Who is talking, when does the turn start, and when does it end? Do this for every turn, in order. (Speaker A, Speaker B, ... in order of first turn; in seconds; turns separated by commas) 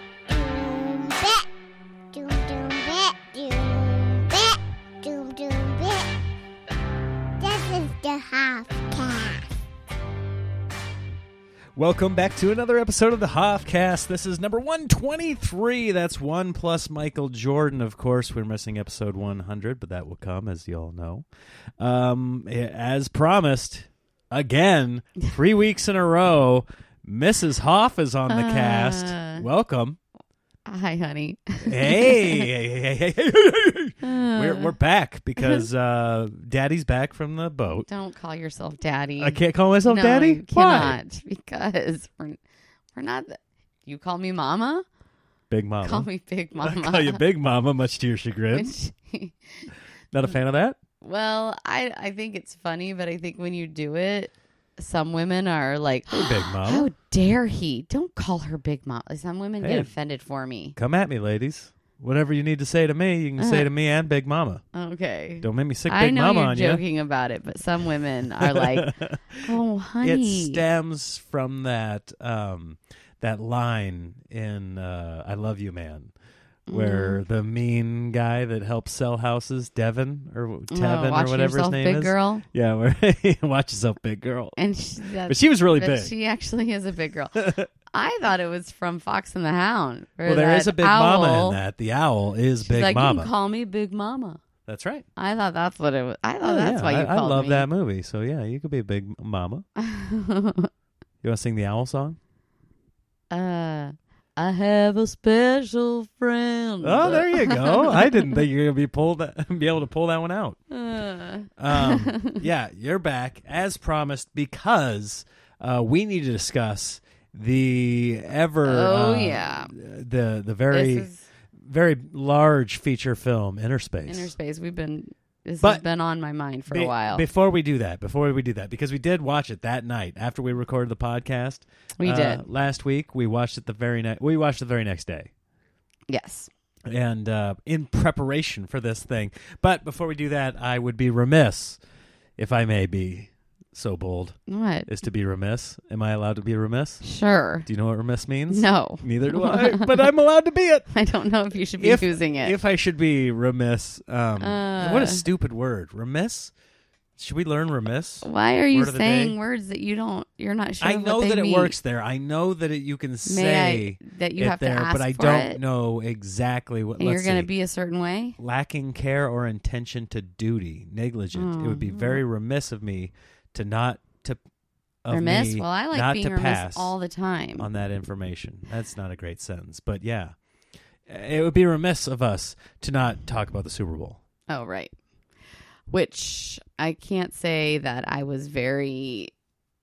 Speaker A: 0.3-1.5, Speaker A: 2.1-6.1, Speaker A: 7.4-9.4, Speaker B: 11.8-21.3, Speaker B: 21.8-30.0, Speaker C: 28.3-29.4, Speaker C: 30.7-32.5, Speaker B: 31.7-37.9, Speaker C: 34.0-34.7, Speaker C: 35.4-35.7, Speaker C: 37.8-42.4, Speaker B: 39.2-41.0, Speaker C: 43.0-44.8, Speaker B: 45.5-46.1, Speaker C: 45.8-47.2, Speaker B: 46.6-48.7, Speaker C: 48.5-49.7, Speaker B: 50.1-50.8, Speaker C: 51.0-60.7, Speaker B: 56.1-56.9, Speaker B: 59.6-59.9, Speaker B: 60.8-64.6, Speaker C: 63.4-63.7, Speaker C: 64.7-70.6, Speaker B: 65.4-66.8, Speaker B: 68.5-76.1, Speaker C: 76.7-77.2, Speaker B: 76.7-84.6, Speaker C: 80.7-82.5, Speaker C: 84.6-91.6, Speaker B: 85.3-86.1, Speaker B: 87.4-87.7, Speaker B: 90.3-93.3, Speaker C: 92.7-94.4, Speaker B: 94.7-95.0, Speaker C: 95.2-97.7, Speaker B: 96.4-99.7, Speaker C: 99.8-100.7, Speaker B: 101.2-102.2, Speaker C: 103.3-108.4, Speaker B: 106.8-110.6, Speaker C: 110.7-112.4, Speaker B: 111.6-124.3, Speaker C: 118.6-119.7, Speaker C: 120.7-121.3, Speaker C: 124.0-127.2, Speaker B: 126.7-135.3, Speaker C: 132.0-132.4, Speaker C: 136.1-136.5, Speaker B: 136.8-141.8, Speaker B: 142.4-147.0, Speaker C: 144.5-144.9, Speaker C: 147.0-147.7, Speaker B: 147.7-150.9, Speaker C: 148.5-150.0, Speaker C: 150.9-152.6, Speaker B: 151.8-156.5, Speaker C: 154.4-155.2, Speaker B: 157.2-159.3, Speaker C: 158.2-161.8, Speaker B: 160.8-167.5, Speaker C: 163.2-165.6, Speaker C: 167.0-168.4, Speaker B: 168.4-174.4, Speaker C: 171.3-172.2, Speaker B: 175.0-176.9, Speaker C: 175.1-177.7, Speaker B: 177.6-180.3, Speaker B: 181.1-184.2, Speaker C: 184.5-184.9, Speaker C: 185.9-189.3